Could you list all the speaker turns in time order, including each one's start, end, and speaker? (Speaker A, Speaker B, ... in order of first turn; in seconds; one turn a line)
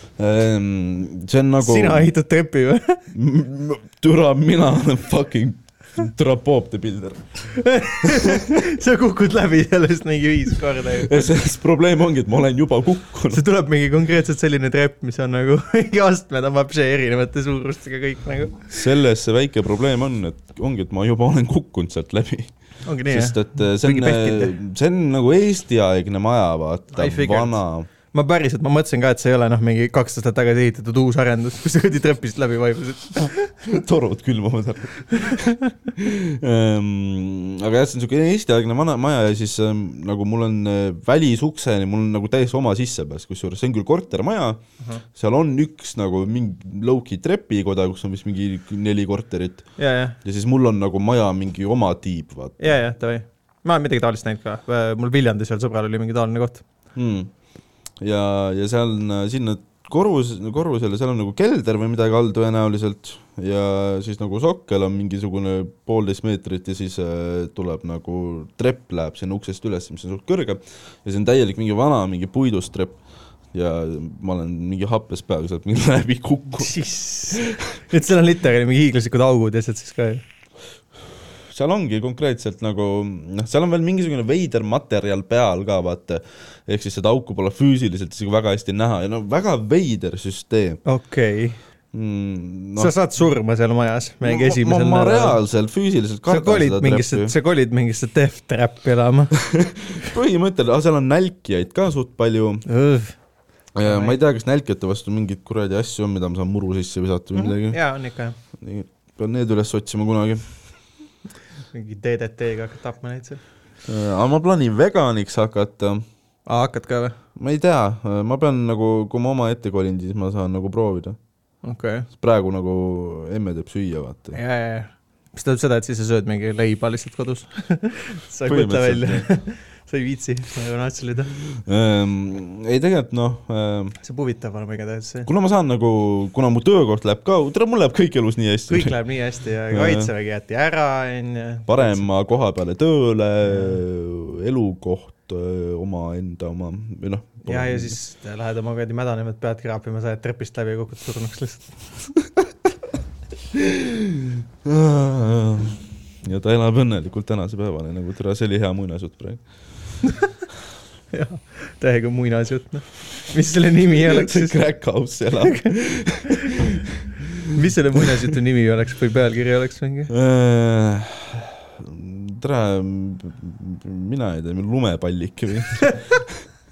Speaker A: 0.2-2.1
Speaker B: 1.6-3.0
Speaker A: 3.1-7.4
Speaker B: 7.5-11.3
Speaker A: 8.0-8.6
Speaker A: 10.9-13.4
Speaker B: 13.3-18.7
Speaker A: 18.7-22.5
Speaker B: 22.9-24.5
Speaker A: 23.1-27.9
Speaker B: 26.9-27.6
Speaker B: 28.1-33.6
Speaker A: 33.6-44.6
Speaker B: 35.1-35.7
Speaker A: 45.1-49.7
Speaker B: 49.8-50.2
Speaker A: 50.2-52.6
Speaker B: 52.6-56.6
Speaker A: 56.9-57.3
Speaker A: 58.0-73.0
Speaker A: 73.5-76.8
Speaker B: 76.6-80.2
Speaker A: 77.3-77.7
Speaker A: 81.5-90.8
Speaker B: 90.8-91.6
Speaker A: 91.9-92.9
Speaker B: 92.8-95.4
Speaker A: 94.2-97.3
Speaker B: 96.3-99.4
Speaker A: 99.4-102.6
Speaker B: 102.7-103.2
Speaker A: 103.7-107.8
Speaker B: 103.8-104.2
Speaker B: 107.3-108.3
Speaker A: 108.6-110.5
Speaker B: 111.7-113.4
Speaker A: 113.8-116.0
Speaker B: 116.5-117.2
Speaker A: 117.3-121.2
Speaker B: 121.6-122.1
Speaker A: 122.2-124.4
Speaker B: 124.3-131.3
Speaker A: 128.4-129.2
Speaker A: 131.5-133.9
Speaker B: 134.0-135.3
Speaker A: 135.2-138.9
Speaker B: 138.7-142.0
Speaker A: 139.7-140.1
Speaker A: 141.7-147.9
Speaker B: 143.4-143.8
Speaker B: 147.4-151.8
Speaker A: 153.5-159.4
Speaker B: 160.0-160.3
Speaker B: 161.1-164.6
Speaker A: 163.9-168.1
Speaker B: 165.4-166.7
Speaker B: 167.5-170.1
Speaker A: 170.1-176.4
Speaker B: 175.8-176.2